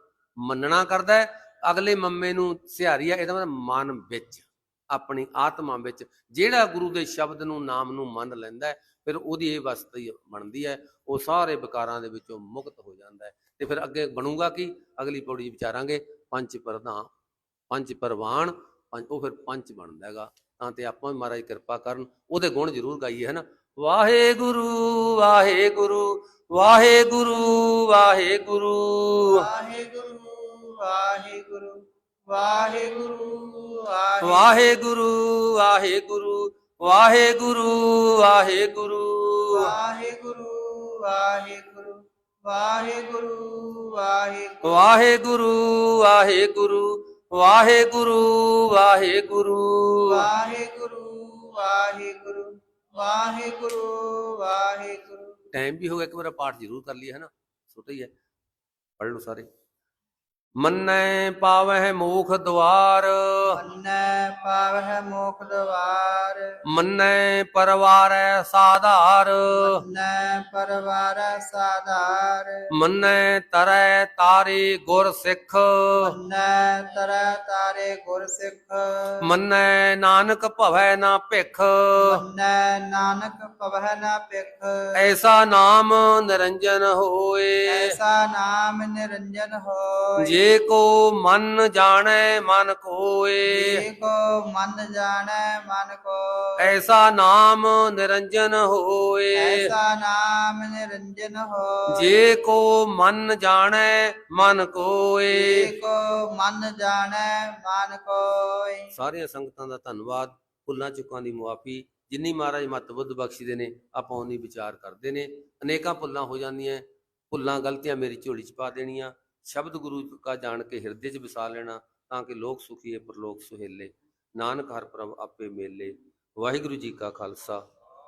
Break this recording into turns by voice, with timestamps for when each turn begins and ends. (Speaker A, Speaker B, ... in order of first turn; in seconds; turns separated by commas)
Speaker A: 0.4-17.1, Speaker A: 17.7-29.5, Speaker B: 29.3-31.8, Speaker B: 32.3-34.6, Speaker A: 34.2-39.7, Speaker B: 39.5-44.8, Speaker A: 44.6-50.3, Speaker B: 50.1-55.3, Speaker A: 55.5-58.1, Speaker A: 59.0-59.5, Speaker A: 60.6-63.6, Speaker B: 63.5-66.5, Speaker A: 66.7-69.8, Speaker B: 69.5-72.6, Speaker A: 72.7-76.1, Speaker B: 76.0-79.2, Speaker A: 79.2-82.2, Speaker B: 82.0-85.0, Speaker A: 84.9-88.0, Speaker B: 87.7-90.4, Speaker A: 90.2-93.8, Speaker B: 93.5-96.7, Speaker A: 96.6-99.7, Speaker B: 99.3-102.3, Speaker A: 101.9-105.7, Speaker B: 105.3-108.9, Speaker A: 108.9-127.6